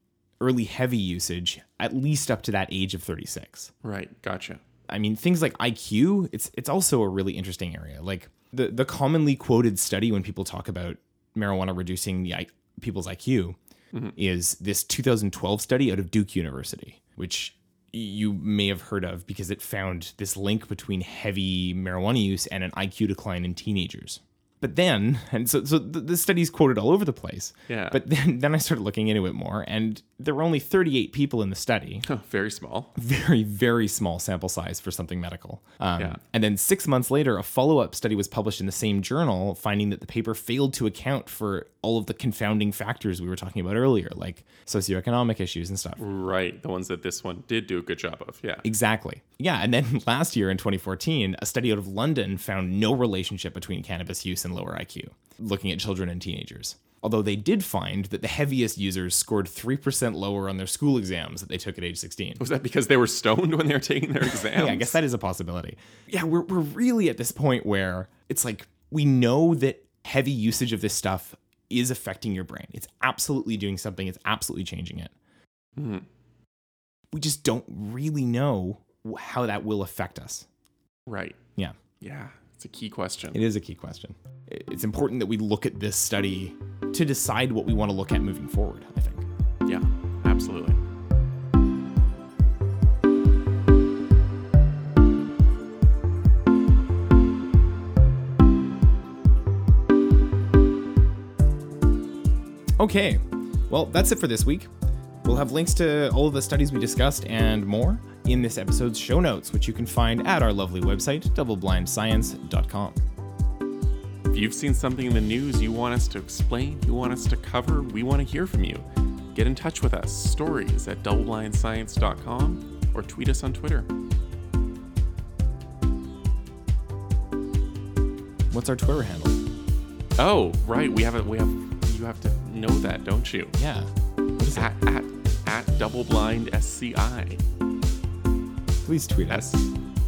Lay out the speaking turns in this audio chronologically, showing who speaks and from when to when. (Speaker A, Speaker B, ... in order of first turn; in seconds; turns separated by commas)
Speaker A: 0.4-3.7, Speaker B: 3.8-4.6, Speaker A: 4.9-13.6, Speaker A: 14.2-32.0, Speaker B: 27.7-28.0, Speaker B: 32.0-32.9, Speaker A: 33.0-46.0, Speaker B: 46.0-48.7, Speaker A: 48.6-62.4, Speaker B: 62.4-65.0, Speaker A: 64.4-75.1, Speaker B: 75.8-76.0, Speaker A: 77.1-80.5, Speaker B: 81.1-81.4, Speaker B: 82.0-83.4, Speaker A: 83.3-89.2, Speaker B: 89.7-90.8, Speaker A: 102.8-104.7, Speaker A: 105.2-113.0, Speaker B: 114.3-123.9, Speaker A: 128.5-129.4, Speaker B: 130.2-133.6, Speaker A: 133.6-134.7, Speaker B: 134.5-137.4, Speaker A: 138.8-139.6, Speaker B: 139.3-139.6